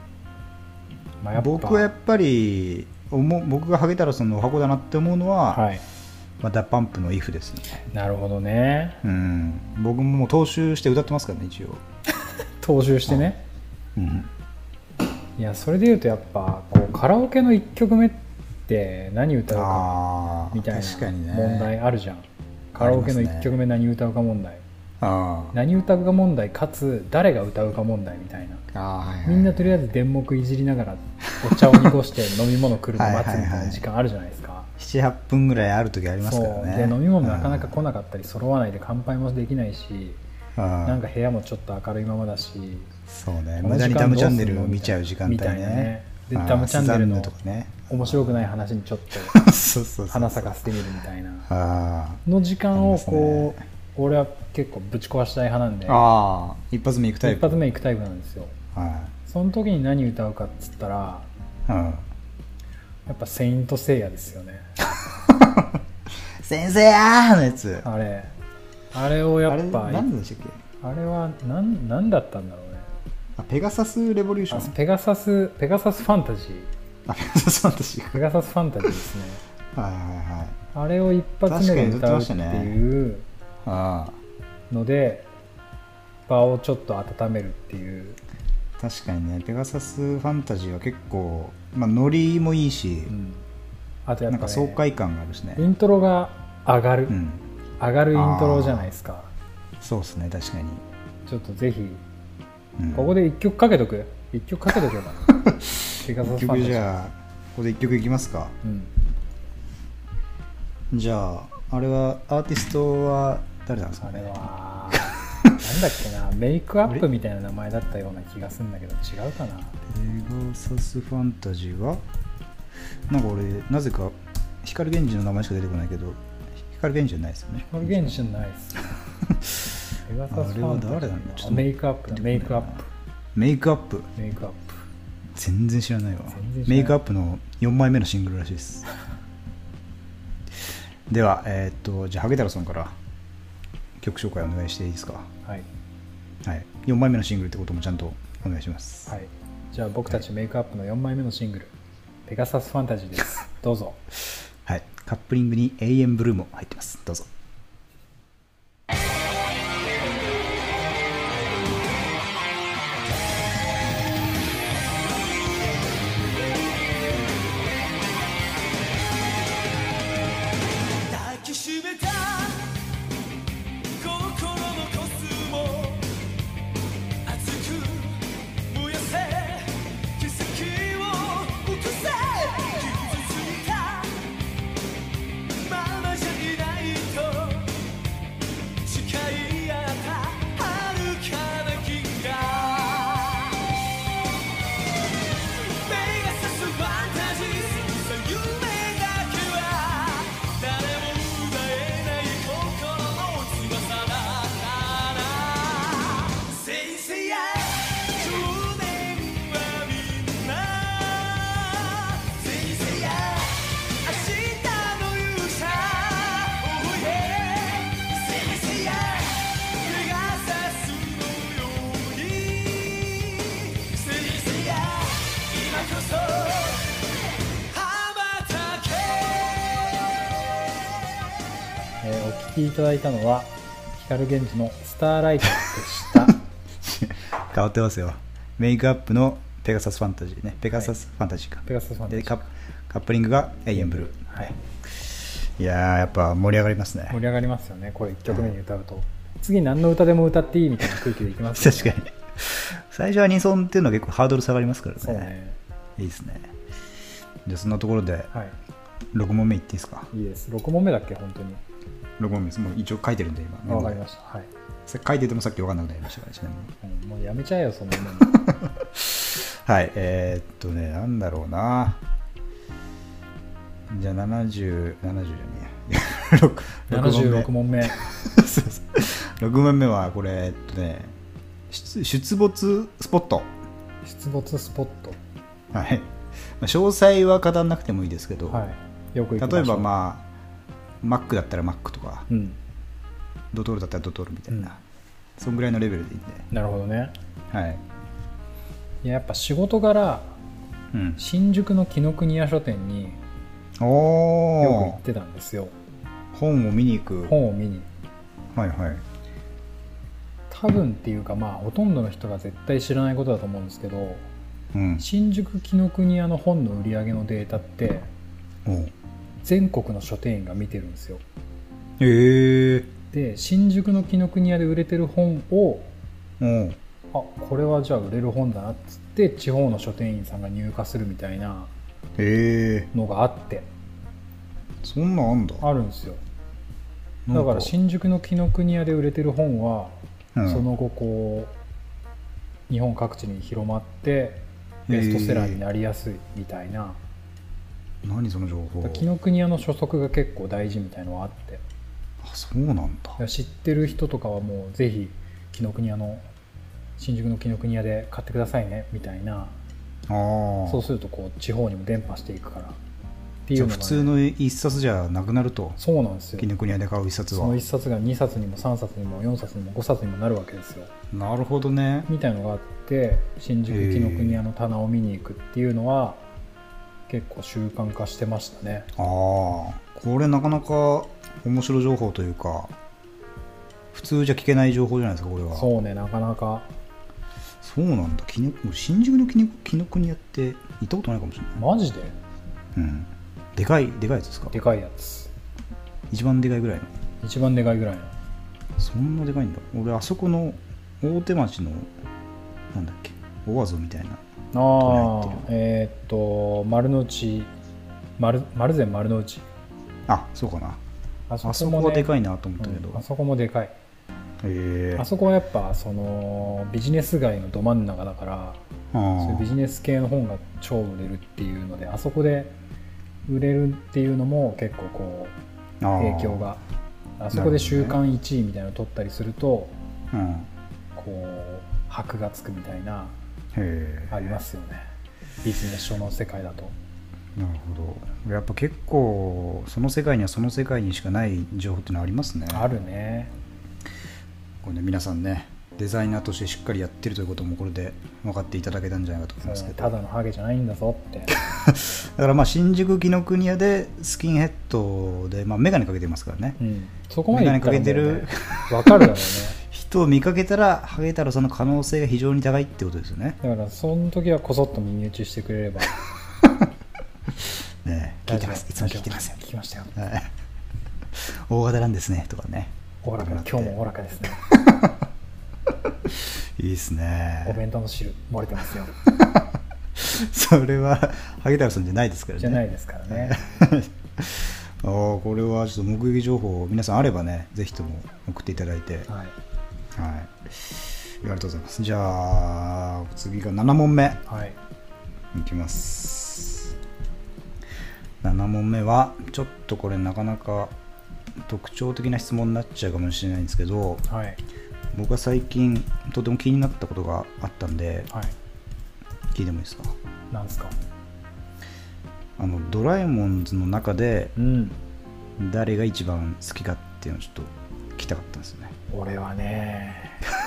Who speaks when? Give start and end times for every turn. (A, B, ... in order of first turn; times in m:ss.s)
0:01.2-0:01.9 A
0:01.3-0:05.6 B
0:05.5-0:05.8 A
0:06.4-0:07.8 B
0:07.9-0:09.0 A
0:09.0-0:11.8 B
0:12.6-0:13.4 A
0:14.0-0:14.3 B
0:15.4-0:24.6 A
0:19.5-0:21.7 B
0:22.8-0:23.5 B
0:25.0-0:25.6 B
0:25.5-0:28.6 A
0:28.7-0:29.8 B
0:29.2-0:34.7 A
0:31.3-0:31.9 B
0:33.0-0:33.8 B
0:34.8-0:37.8 B
0:36.2-0:40.2 A
0:40.6-0:41.0 B
0:40.8-0:42.9 A
0:43.1-0:48.4 B
0:43.6-0:47.3 A
0:47.9-0:49.4 A
0:49.3-0:50.7 B
0:50.1-0:51.5 A
0:51.5-0:53.6 B
0:52.2-0:56.1 A
0:55.9-0:57.6 B
0:57.2-0:58.6 A
0:58.7-0:59.2 B
0:59.3-1:01.3 A
1:01.7-1:02.1 B
1:03.1-1:04.7 A
1:05.2-1:07.9 B
1:07.8-1:08.3 A
1:08.9-1:10.1 A
1:09.4-1:10.6 B
1:10.8-1:12.9 A
1:13.4-1:14.8 B
1:14.5-1:16.7 A
1:17.1-1:18.2 B
1:18.1-1:19.4 A
1:19.8-1:20.6 B
1:20.7-1:23.3 A
1:21.5-1:22.8 B
1:23.6-1:24.2 B
1:24.7-1:25.3 A
1:26.3-1:28.2 A
1:28.8-1:33.1 B
1:33.1-1:33.4 A
1:34.0-1:34.8 A
1:34.3-1:35.7 B
1:35.6-1:37.2 A
1:37.1-1:37.4 B
1:37.8-1:39.3 A
1:38.1-1:38.9 B
1:39.8-1:40.8 B
1:41.3-1:42.0 A
1:42.8-1:43.2 B
1:42.9-1:45.4 A
1:45.4-1:48.6 B
1:46.0-1:46.9 A
1:48.6-1:48.9 A
1:50.9-1:54.4 B
1:54.0-1:59.8 A
1:54.9-1:55.5 B
1:59.9-2:02.0 B
2:03.1-2:08.1 B
2:07.6-2:08.9 A
2:09.3-2:09.6 B
2:10.1-2:12.9 A
2:10.3-2:12.8 B
2:13.4-2:14.1 B
2:14.2-2:14.8 A
2:15.4-2:18.9 B
2:16.3-2:17.0 A
2:21.1-2:23.0 B
2:24.0-2:25.3 B
2:26.4-2:29.1 B
2:29.1-2:31.7 A
2:32.3-2:34.0 A
2:34.7-2:37.3 B
2:51.0-2:52.8 C
2:54.0-2:56.1 C
2:57.2-3:04.3 C
3:05.6-3:07.8 C
3:08.8-3:13.7 C
3:15.3-3:50.6 C
3:52.0-3:56.4 A
3:56.8-4:07.2 B
4:01.6-4:02.4 A
4:03.7-4:04.5 A
4:07.1-4:12.0 A
4:08.3-4:08.6 B
4:11.6-4:15.3 B
4:15.0-4:15.6 A
4:16.0-4:16.5 B
4:17.5-4:18.3 B
4:19.1-4:20.1 B
4:20.1-4:21.6 A
4:22.2-4:24.0 B
4:23.7-4:24.5 A
4:24.9-4:26.7 B
4:26.8-4:28.4 A
4:28.3-4:32.0 B
4:33.9-4:41.1 B
4:36.9-4:38.0 A
4:41.7-4:43.5 B
4:44.0-4:45.2 A
4:45.7-4:48.7 B
4:48.5-4:49.9 A
4:49.4-4:50.3 B
4:51.0-4:52.3 B
4:52.3-4:52.6 A
4:53.5-4:54.8 B
4:55.4-4:56.5 B
4:56.5-4:57.2 A
4:57.5-4:57.8 B
4:59.0-5:00.4 A
5:00.9-5:01.2 B
5:01.2-5:03.2 A
5:03.8-5:05.0 B
5:04.6-5:05.7 A
5:06.3-5:07.4 B
5:07.3-5:07.9 A
5:08.5-5:09.0 B
5:10.5-5:14.3 A
5:14.7-5:15.1 B
5:15.0-5:18.1 A
5:18.7-5:18.9 B
5:19.4-5:21.2 A
5:22.0-5:22.9 B
5:23.1-5:25.9 A
5:26.4-5:26.8 B
5:27.1-5:31.7 A
5:32.2-5:32.9 B
5:32.9-5:33.7 A
5:34.8-5:35.7 B
5:35.6-5:36.2 A
5:37.3-5:37.7 B
5:37.3-5:41.5 A
5:40.4-5:40.7 B
5:42.7-5:47.0 A
5:44.9-5:45.6 B
5:48.0-5:49.1 B
5:48.8-5:51.6 A
5:52.2-5:53.2 B
5:53.2-5:56.3 A
5:57.0-5:59.6 A
6:00.1-6:00.8 B
6:00.7-6:02.8 A
6:03.5-6:04.2 A
6:03.5-6:05.8 B
6:05.8-6:06.5 A
6:06.4-6:07.6 B
6:07.3-6:10.9 A
6:11.1-6:12.1 B
6:12.1-6:16.2 A
6:13.7-6:14.4 B
6:17.1-6:18.9 A
6:19.0-6:22.8 B
6:23.9-6:25.7 B
6:25.5-6:26.7 A
6:27.6-6:31.6 B
6:31.6-6:32.2 A
6:32.8-6:34.6 B
6:34.5-6:35.3 A
6:36.1-6:36.9 B
6:37.2-6:38.1 A
6:38.8-6:41.9 B
6:42.7-6:44.2 B
6:44.5-6:47.5 A
6:44.8-6:45.5 B
6:48.2-6:49.5 A
6:50.1-6:50.8 B
6:51.3-6:53.8 A
6:51.4-6:53.0 B
6:54.4-6:55.1 B
6:55.0-6:58.6 A
6:58.9-6:59.6 B
6:59.2-7:02.6 A
7:03.3-7:05.4 A
7:05.8-7:06.5 B
7:06.0-7:06.6 A
7:07.2-7:09.8 A
7:07.3-7:08.0 B
7:10.1-7:10.5 B
7:11.0-7:13.2 A
7:13.6-7:14.4 B
7:14.1-7:14.9 A
7:15.4-7:16.8 A
7:17.4-7:22.7 B
7:22.5-7:23.3 A
7:24.6-7:30.0 B
7:29.4-7:31.3 A
7:31.4-7:36.6 B
7:36.6-7:39.6 A
7:37.3-7:43.4 B
7:43.4-7:46.0 A
7:47.8-7:49.4 B
7:48.3-7:50.0 A
7:50.0-7:50.3 B
7:51.2-7:53.8 B
7:53.0-7:54.4 A
7:54.5-7:54.9 B
7:56.2-7:57.6 B
7:57.4-7:58.9 A
7:59.0-8:09.1 B
8:02.4-8:03.4 A
8:09.1-8:09.3 A
8:10.0-8:14.2 B
8:14.3-8:14.6 A
8:15.3-8:16.7 B
8:18.2-8:20.7 B
8:21.4-8:24.1 B
8:24.1-8:24.4 A
8:24.9-8:28.1 B
8:29.3-8:30.0 B
8:30.3-8:30.8 A
8:32.4-8:34.4 B
8:34.4-8:34.8 A
8:35.4-8:38.8 B
8:38.9-8:40.2 A